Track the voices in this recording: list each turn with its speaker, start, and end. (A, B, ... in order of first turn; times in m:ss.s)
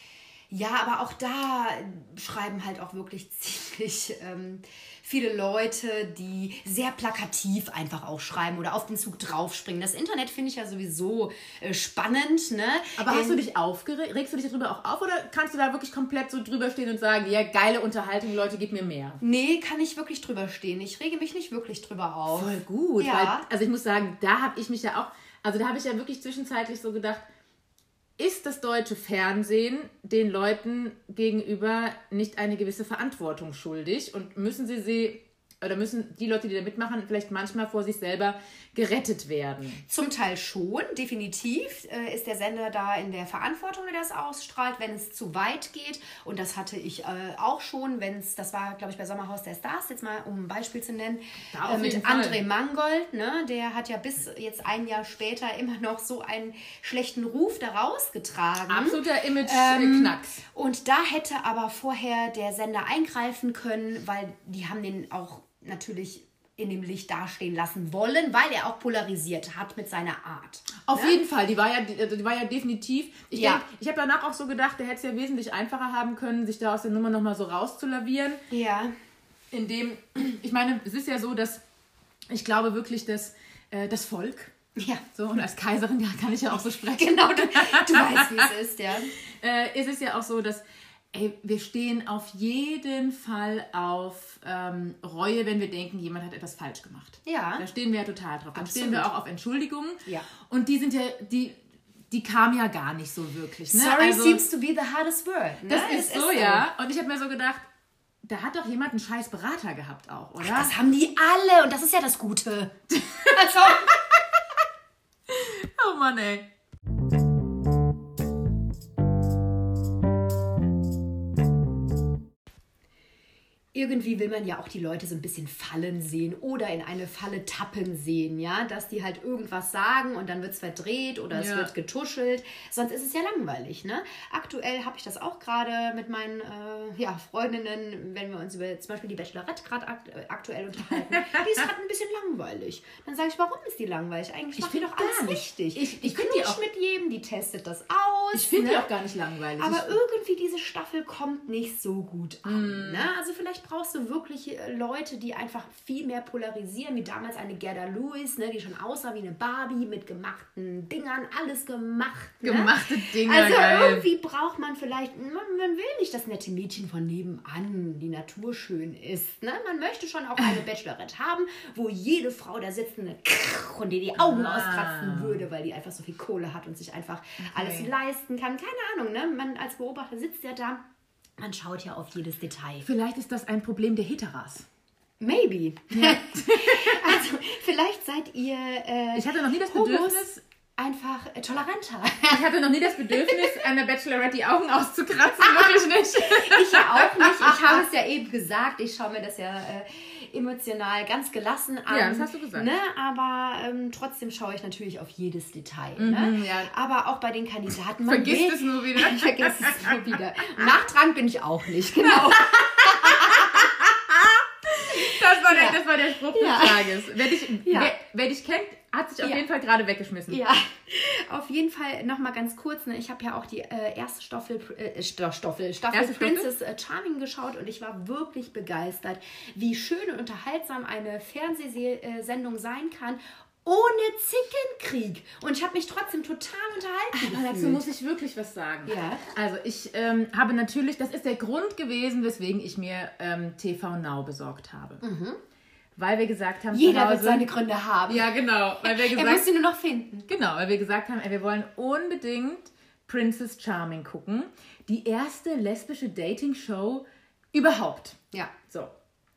0:00.5-0:13.4 A
0:13.0-0:19.2 B
0:19.2-0:23.4 A
0:22.3-0:27.2 B
0:28.2-0:39.8 B
0:39.9-1:11.2 A
0:51.5-0:52.4 B
0:58.7-1:00.4 B
1:10.8-1:18.4 B
1:13.3-1:13.6 A
1:18.5-1:18.9 A
1:19.5-1:21.6 B
1:22.3-1:24.5 B
1:24.8-1:25.0 A
1:25.1-1:28.5 B
1:26.8-1:29.1 A
1:29.4-1:41.6 B
1:37.2-1:37.6 A
1:38.5-1:39.1 A
1:42.1-1:44.4 B
1:43.7-1:46.7 A
1:45.6-1:47.7 B
1:48.2-1:50.7 B
1:50.4-1:54.0 A
1:52.9-1:54.0 B
1:55.3-1:56.5 B
2:03.7-2:28.9 A
2:11.3-2:11.7 B
2:24.6-2:26.6 B
2:28.3-2:29.9 B
2:29.6-3:00.8 A
2:32.4-2:33.1 B
2:42.4-2:44.0 B
2:54.2-2:55.4 B
2:57.4-2:57.9 B
3:01.4-3:02.9 A
3:02.8-3:04.6 B
3:05.2-3:12.4 A
3:05.9-3:07.2 B
3:09.1-3:10.4 B
3:12.3-3:17.8 B
3:13.1-3:13.6 A
3:15.6-3:33.7 A
3:21.9-3:22.7 B
3:26.0-3:26.7 B
3:28.0-3:30.0 B
3:32.1-3:40.4 B
3:34.8-3:37.9 A
3:40.3-3:57.8 A
3:45.9-3:46.5 B
3:57.1-4:05.0 B
3:58.8-3:59.2 A
4:05.0-4:05.4 A
4:06.0-4:07.5 B
4:06.7-4:10.3 A
4:08.1-4:09.5 B
4:10.3-4:18.9 B